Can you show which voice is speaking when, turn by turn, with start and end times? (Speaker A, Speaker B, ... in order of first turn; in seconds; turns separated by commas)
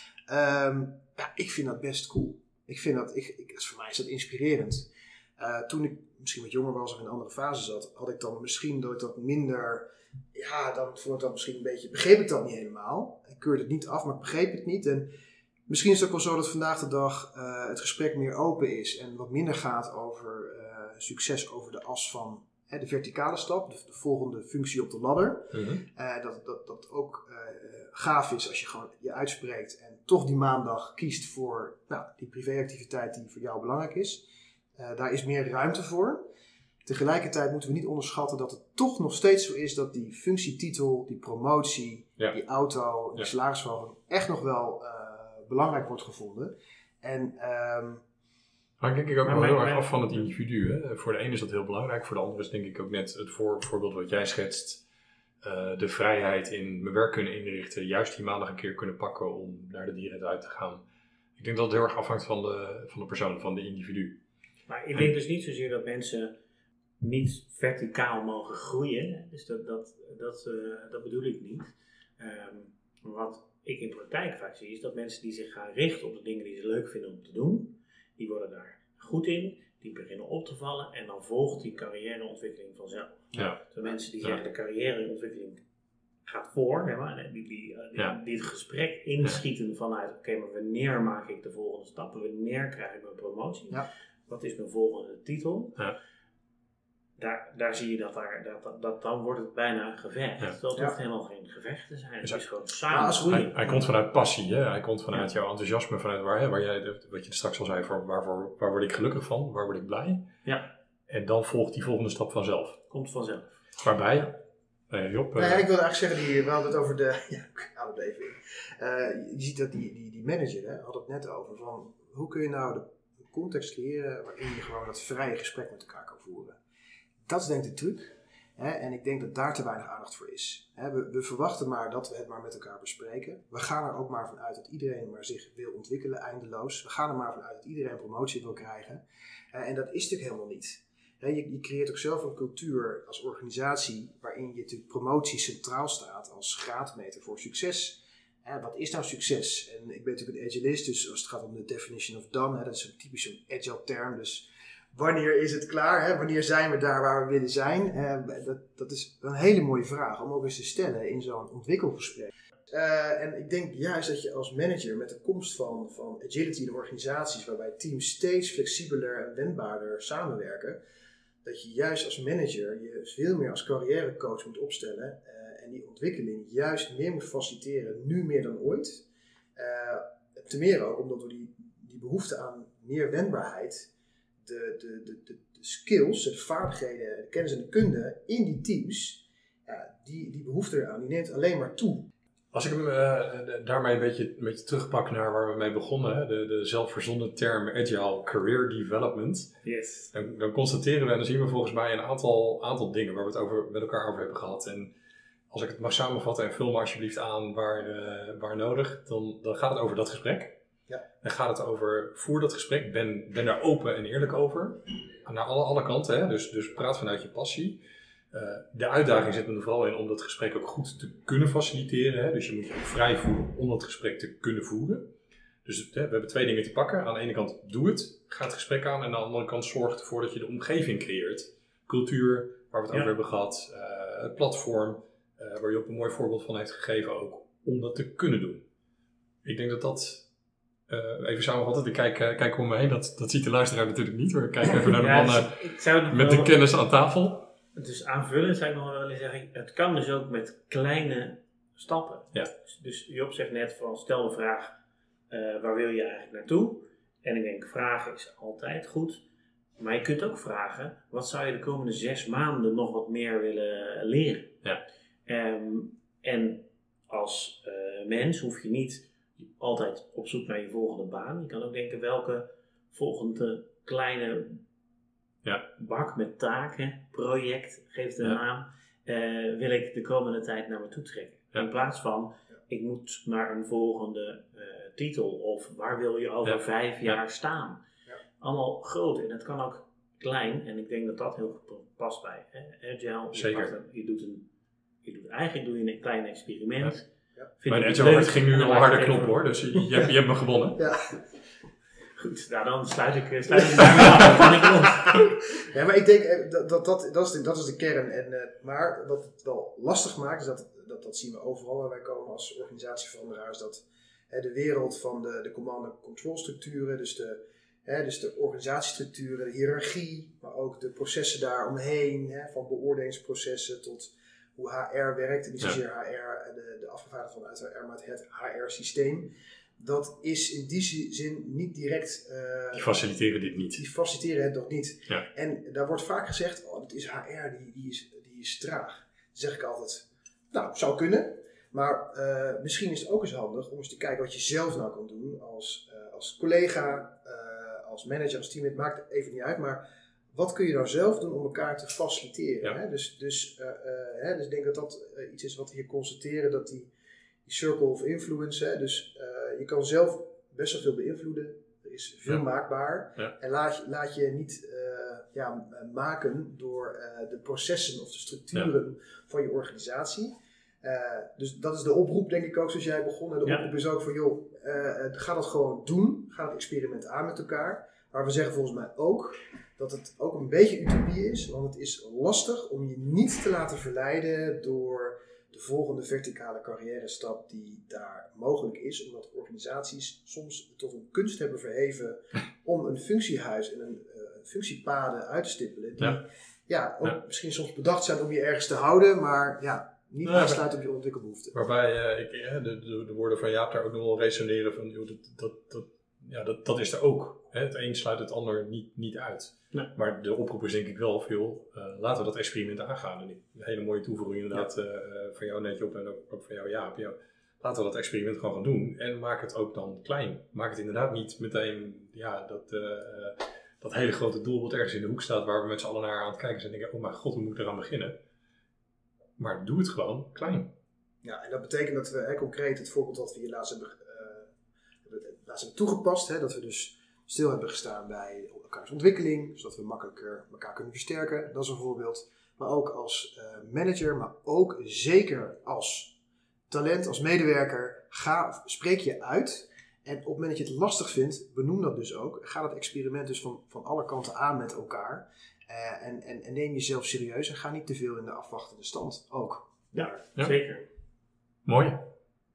Speaker A: 0.3-15.1, Speaker A: 15.7-36.2, Speaker B: 25.5-25.8, Speaker A: 36.8-48.0, Speaker B: 48.8-54.8, Speaker C: 49.2-50.2, Speaker B: 55.4-60.8, Speaker B: 61.4-64.2, Speaker C: 64.7-66.4, Speaker C: 67.0-85.6, Speaker C: 86.2-95.8, Speaker C: 97.2-103.8, Speaker A: 102.9-103.7, Speaker B: 103.3-110.3, Speaker C: 110.4-110.7, Speaker B: 111.1-112.8, Speaker C: 112.9-113.5, Speaker B: 113.8-114.4, Speaker B: 114.9-115.6, Speaker A: 115.3-126.6, Speaker A: 127.2-170.8, Speaker A: 171.4-183.9, Speaker A: 184.4-192.1, Speaker B: 192.5-199.5, Speaker C: 199.6-200.1, Speaker B: 200.1-204.9, Speaker B: 205.5-210.6, Speaker B: 211.2-217.8, Speaker B: 218.3-225.1, Speaker B: 225.6-238.6, Speaker B: 239.4-240.2, Speaker B: 240.9-247.5, Speaker C: 244.9-246.6, Speaker C: 247.7-254.8, Speaker C: 255.3-259.2, Speaker C: 259.8-264.6, Speaker C: 265.2-274.6, Speaker C: 275.8-287.8, Speaker B: 286.4-287.2, Speaker C: 288.4-294.5, Speaker B: 293.3-293.7, Speaker C: 295.0-299.4, Speaker B: 297.7-300.8, Speaker A: 300.8-301.2, Speaker C: 302.1-305.2, Speaker A: 303.8-333.0, Speaker B: 332.7-333.8, Speaker A: 333.7-356.9, Speaker A: 357.4-401.5, Speaker B: 400.2-400.6, Speaker B: 401.5-428.2, Speaker B: 429.4-430.7, Speaker A: 431.2-434.5, Speaker A: 435.0-446.2, Speaker A: 446.7-459.7, Speaker C: 459.9-460.9, Speaker B: 461.6-462.1